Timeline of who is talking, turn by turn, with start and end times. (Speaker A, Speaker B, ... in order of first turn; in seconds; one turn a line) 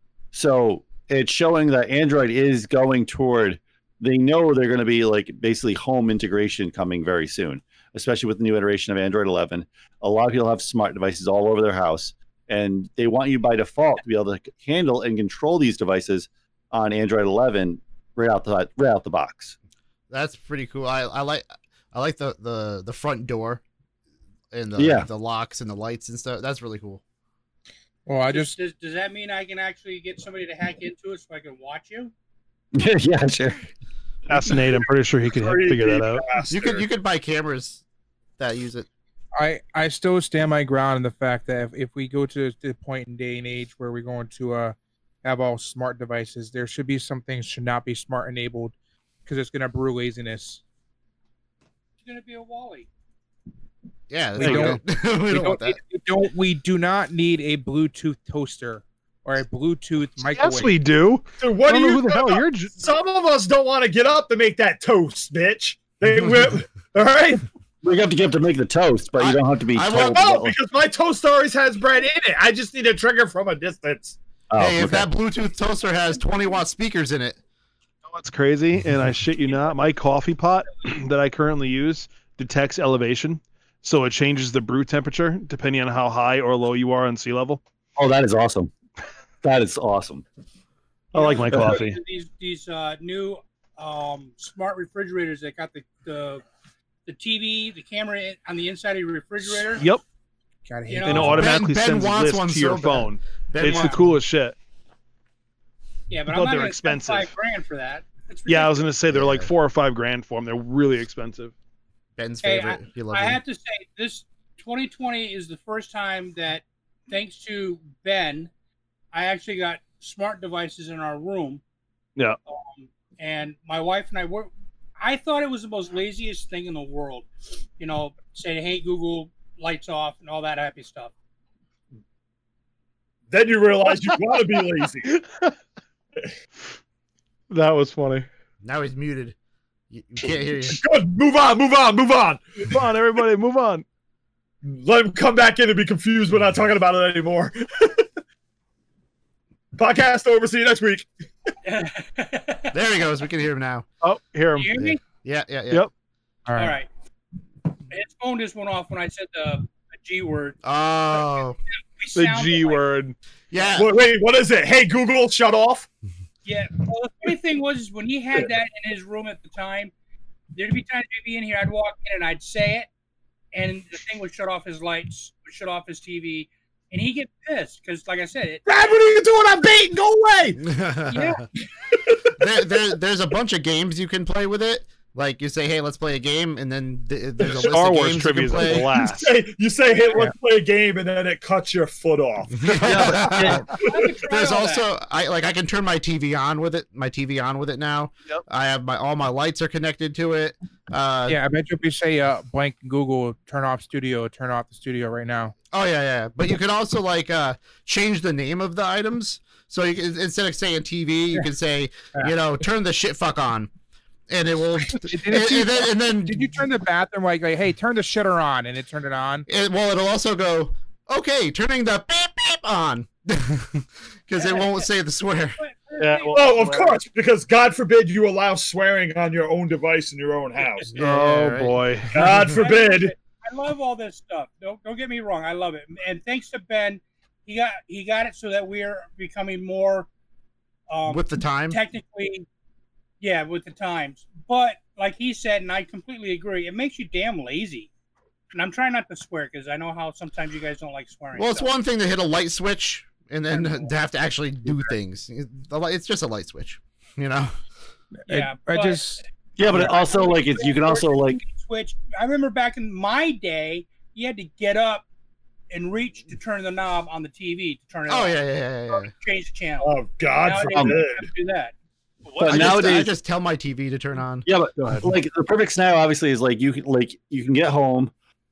Speaker A: 0.3-19.6
Speaker B: 20.1-23.6
Speaker B: 24.5-27.0
Speaker A: 24.8-25.1
Speaker C: 28.1-28.5
Speaker D: 28.3-32.1
Speaker A: 32.7-33.7
Speaker E: 34.3-36.2
Speaker F: 35.3-36.8
Speaker B: 36.5-37.8
Speaker B: 38.4-38.9
Speaker C: 39.4-48.7
Speaker C: 49.2-50.6
Speaker D: 52.0-52.9
Speaker B: 54.1-55.8
Speaker E: 54.4-54.8
Speaker C: 54.4-60.7
Speaker E: 60.3-62.9
Speaker F: 61.4-67.4
Speaker A: 67.8-70.5
Speaker B: 69.2-70.2
Speaker F: 70.1-74.2
Speaker A: 74.5-75.1
Speaker B: 74.5-77.4
Speaker E: 78.1-87.6
Speaker A: 88.0-88.7
Speaker A: 89.4-90.2
Speaker E: 91.1-92.0
Speaker D: 91.1-96.4
Speaker A: 91.5-91.8
Speaker D: 97.0-99.9
Speaker E: 99.7-100.0
Speaker C: 100.7-101.4
Speaker D: 100.9-101.5
Speaker E: 101.0-104.6
Speaker B: 101.2-104.0
Speaker D: 106.1-108.8
Speaker E: 106.3-107.3
Speaker E: 108.5-111.5
Speaker B: 109.1-109.5
Speaker B: 112.2-113.4
Speaker D: 112.4-118.5
Speaker D: 119.1-121.6
Speaker D: 122.5-131.1
Speaker F: 133.3-135.2
Speaker E: 135.1-135.5
Speaker E: 137.5-138.3
Speaker B: 138.6-139.3
Speaker B: 139.9-140.8
Speaker F: 140.7-142.6
Speaker E: 142.6-143.8
Speaker F: 144.6-148.1
Speaker F: 149.7-151.1
Speaker D: 151.7-152.7
Speaker B: 152.7-153.8
Speaker E: 154.0-154.8
Speaker D: 154.6-155.0
Speaker B: 154.8-155.9
Speaker C: 156.5-156.8
Speaker D: 156.6-156.9
Speaker D: 157.9-160.6
Speaker B: 160.6-161.6
Speaker D: 162.0-162.8
Speaker E: 162.1-163.2
Speaker B: 163.5-163.9
Speaker F: 163.8-165.9
Speaker D: 166.4-169.9
Speaker D: 170.5-172.9
Speaker D: 173.5-178.6
Speaker F: 178.7-180.6
Speaker B: 180.6-181.4
Speaker D: 181.1-181.4
Speaker B: 182.3-188.9
Speaker E: 187.6-189.3
Speaker F: 188.8-193.0
Speaker B: 192.6-193.7
Speaker A: 192.7-193.7
Speaker D: 193.2-194.9
Speaker F: 193.7-194.1
Speaker B: 194.2-201.4
Speaker C: 201.3-205.5
Speaker B: 205.7-213.7
Speaker B: 214.3-216.6
Speaker C: 214.9-219.4
Speaker B: 219.5-225.6
Speaker D: 224.4-224.9
Speaker D: 225.6-226.9
Speaker E: 226.0-226.6
Speaker F: 226.3-230.9
Speaker D: 230.6-230.9
Speaker B: 230.9-232.3
Speaker E: 231.0-232.3
Speaker F: 232.1-233.1
Speaker D: 232.3-240.1
Speaker D: 240.9-242.4
Speaker B: 241.1-241.8
Speaker D: 243.2-247.9
Speaker D: 248.5-251.7
Speaker B: 251.3-257.5
Speaker D: 253.5-253.9
Speaker C: 258.3-259.2
Speaker D: 258.3-259.1
Speaker A: 259.6-261.4
Speaker D: 259.7-265.1
Speaker D: 265.7-271.7
Speaker B: 268.1-269.1
Speaker F: 269.8-271.3
Speaker A: 272.4-273.1
Speaker B: 272.4-274.4
Speaker A: 274.4-278.1